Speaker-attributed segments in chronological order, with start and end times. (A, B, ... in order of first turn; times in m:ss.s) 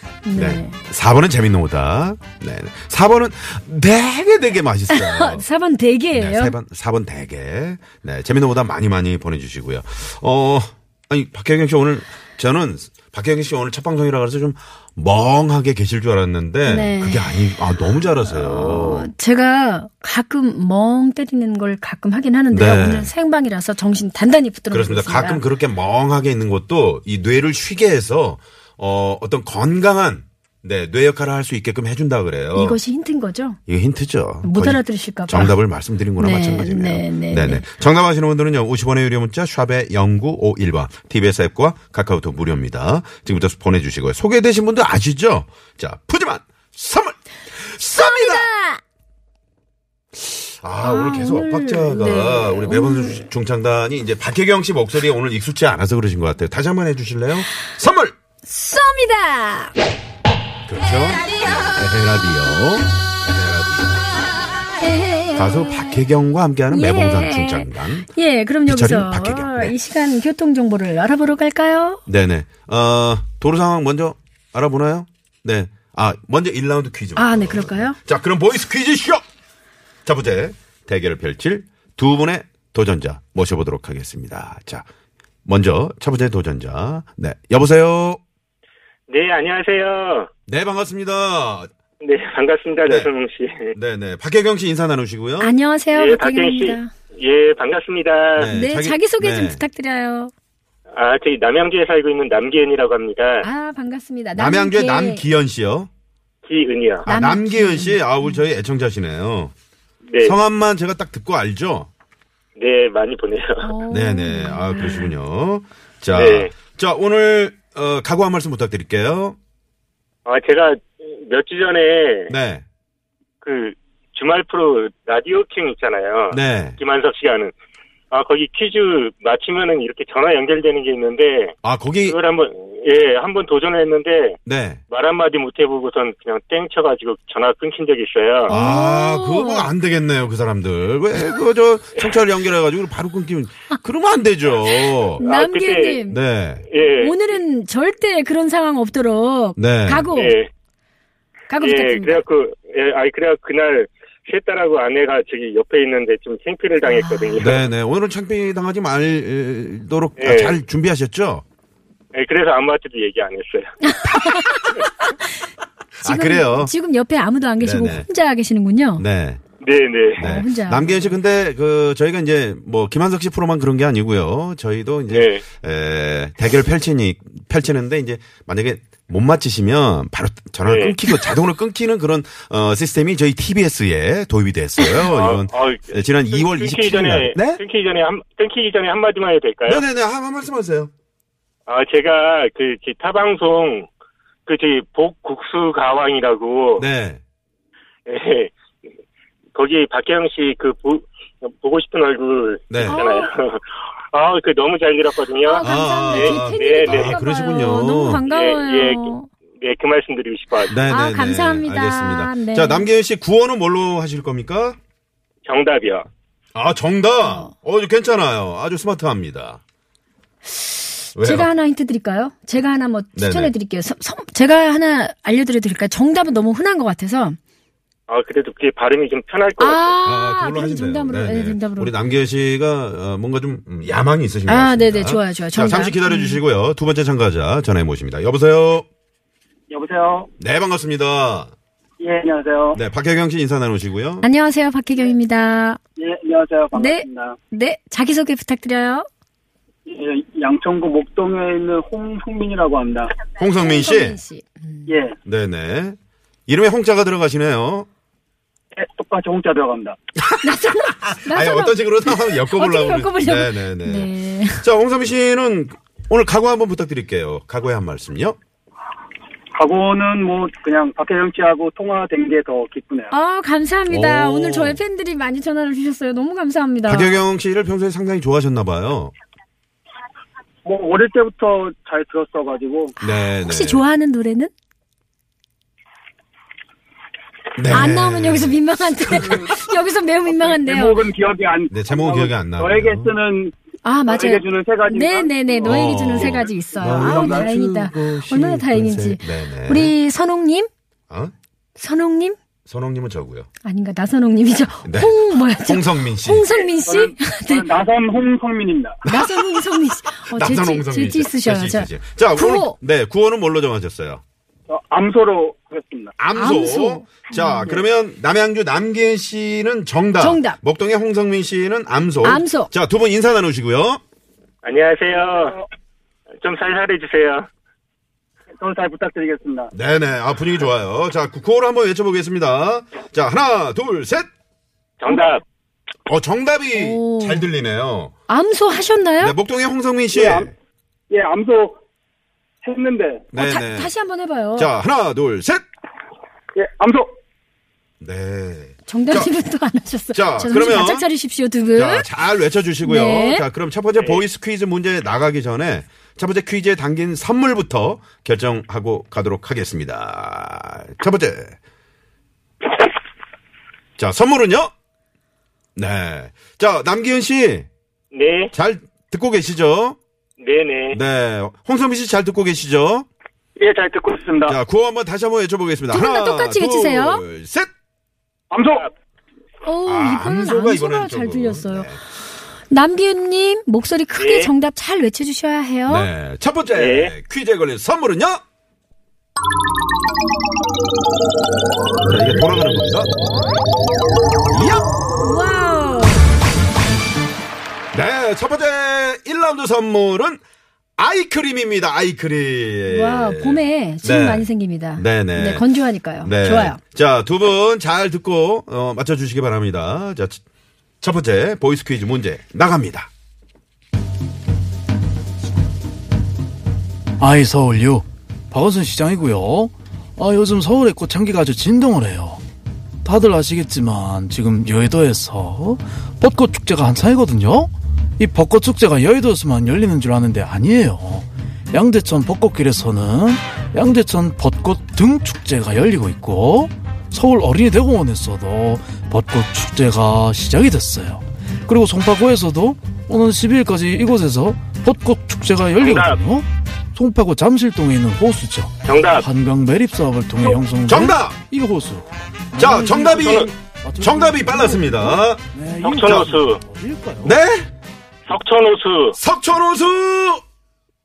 0:00.2-0:00.8 A
0:00.4-0:05.5 B
0:04.9-0:06.6 A
0:06.1-0:19.1 B
0:16.7-0:17.6 A
0:18.2-0:25.4 A
0:22.5-0:23.1 B
0:24.7-0:32.8 B
0:32.5-0:33.6 A
0:33.7-0:48.5 B
0:34.4-0:35.6 A
0:36.2-0:37.6 A
0:47.8-0:48.8 A
0:50.2-0:58.2 B
0:50.8-0:53.3 A
0:58.5-0:59.7 A
1:00.7-1:04.2 B
1:01.2-1:01.7 A
1:04.8-1:06.0 A
1:05.4-1:08.1 B
1:06.7-1:12.0 A
1:08.7-1:09.8 B
1:12.1-1:19.2 B
1:17.2-1:18.0 A
1:20.1-1:24.8 B
1:25.5-1:28.2 B
1:29.1-1:30.3 C
1:30.5-1:31.7 B
1:32.0-1:33.7 C
1:33.7-1:35.5 B
1:35.4-1:36.9 A
1:35.9-1:38.5 C
1:38.4-1:39.6 B
1:38.5-1:40.3 A
1:40.9-1:43.5 C
1:43.4-1:45.3 A
1:44.4-1:45.9 B
1:46.4-1:47.1 C
1:47.1-1:49.5 B
1:47.1-1:48.4 A
1:50.1-1:50.4 C
1:50.2-1:51.9 B
1:52.6-1:53.6 C
1:53.6-1:55.1 A
1:53.9-1:59.4 B
1:56.1-1:56.5 C
2:00.3-2:02.3 C
2:02.3-2:02.6 B
2:03.4-2:07.5 C
2:06.3-2:06.8 B
2:08.1-2:11.5 C
2:11.6-2:12.2 B
2:12.1-2:14.4 C
2:14.5-2:14.8 B
2:14.9-2:18.5 C
2:18.5-2:19.7 A
2:18.5-2:25.2 B
2:25.0-2:26.2 A
2:25.2-2:26.0 C
2:26.1-2:26.7 B
2:26.7-2:27.2 C
2:26.9-2:30.4 A
2:29.6-2:30.1 B
2:30.2-2:30.5 C
2:31.5-2:32.2 A
2:31.6-2:37.6 C
2:36.9-2:37.3 A
2:37.4-2:41.4 B
2:40.2-2:40.6 C
2:42.1-2:43.8 C
2:43.8-2:45.1 A
2:46.0-2:46.7 B
2:46.0-2:49.0 A
2:47.6-2:48.1 B
2:49.0-2:49.4 B
2:49.6-2:50.3 C
2:50.2-3:07.6 B
2:50.2-2:51.1 A
2:55.1-2:55.4 C
3:00.7-3:01.0 C
3:05.1-3:09.8 C
3:09.7-3:10.9 B
3:11.7-3:13.9 C
3:14.5-3:16.9 C
3:16.8-3:17.2 B
3:18.1-3:18.5 C
3:19.6-3:27.1 C
3:22.7-3:23.0 B
3:22.8-3:23.3 A
3:25.4-3:29.3 A
3:25.6-3:28.2 B
3:28.3-3:30.8 C
3:30.7-3:34.8 B
3:30.9-3:32.9 A
3:35.5-3:36.1 C
3:36.6-3:39.6 B
3:37.2-3:37.5 A
3:40.6-3:47.4 A
3:41.2-3:41.5 B
3:43.2-3:43.5 B
3:48.1-3:50.0 C
3:49.6-3:51.9 A
3:50.0-3:58.9 B
3:54.5-3:56.4 A
3:59.7-4:00.3 D
4:00.4-4:01.5 B
4:02.0-4:02.8 D
4:02.7-4:04.2 B
4:04.2-4:05.8 A
4:06.0-4:07.4 D
4:06.7-4:09.1 A
4:09.9-4:13.1 D
4:13.4-4:14.2 B
4:13.4-4:15.0 A
4:14.9-4:15.2 D
4:15.2-4:16.0 B
4:16.5-4:17.9 B
4:18.8-4:20.0 D
4:20.2-4:28.4 B
4:20.4-4:24.7 A
4:29.5-4:33.1 D
4:33.1-4:37.2 A
4:33.9-4:34.8 B
4:36.9-4:39.1 B
4:40.6-4:42.9 D
4:43.0-4:44.5 A
4:43.0-4:43.8 B
4:47.6-4:48.6 B
4:47.7-4:51.0 A
4:50.4-4:53.6 D
4:51.7-4:53.1 B
4:53.8-5:00.7 A
4:54.1-4:57.6 D
4:55.7-4:59.9 B
5:01.8-5:02.4 A
5:02.7-5:03.5 B
5:03.6-5:07.7 A
5:04.8-5:06.5 B
5:06.8-5:09.0 D
5:09.0-5:09.5 B
5:09.0-5:12.8 A
5:10.2-5:14.2 B
5:14.7-5:16.1 D
5:16.2-5:24.0 B
5:16.3-5:17.7 A
5:20.2-5:20.6 A
5:22.2-5:22.7 A
5:24.6-5:25.6 C
5:26.4-5:27.5 C
5:28.5-5:29.7 D
5:29.8-5:34.3 B
5:35.0-5:35.4 C
5:36.1-5:38.1 B
5:36.7-5:37.5 A
5:38.3-5:39.4 A
5:39.2-5:40.5 B
5:40.1-5:40.5 D
5:41.1-5:41.8 D
5:42.6-5:43.2 D
5:43.3-5:43.9 B
5:43.3-5:44.7 A
5:44.6-5:45.6 B
5:46.6-5:47.2 D
5:48.0-5:49.3 B
5:48.9-5:52.1 A
5:50.1-5:51.1 B
5:51.7-6:01.6 B
5:52.8-5:53.5 A
5:54.0-5:54.2 C
6:04.0-6:04.7 B
6:05.8-6:07.7 B
6:08.1-6:08.5 C
6:08.5-6:10.0 B
6:10.4-6:11.0 C
6:10.9-6:13.1 B
6:13.6-6:14.6 D
6:14.5-6:17.7 B
6:15.9-6:17.2 A
6:18.5-6:18.9 D
6:19.6-6:21.9 A
6:19.9-6:22.0 B
6:22.7-6:26.1 A
6:24.2-6:24.5 C
6:25.9-6:28.4 B
6:26.7-6:27.1 C
6:32.0-6:33.1 B
6:34.5-6:34.9 B
6:35.2-6:36.2 A
6:37.9-6:40.4 B
6:41.0-6:50.4 B
6:42.9-6:46.8 A
6:51.0-6:53.1 B
6:57.2-7:02.4 E
7:03.0-7:37.4 E
7:25.8-7:26.2 C
7:28.8-7:29.3 C
7:30.8-7:31.4 B
7:32.6-7:33.4 B
7:33.2-7:33.5 C
7:34.0-7:35.4 B
7:35.8-7:36.6 C
7:37.2-7:37.7 B
7:38.3-7:39.2 C
7:39.2-7:40.4 B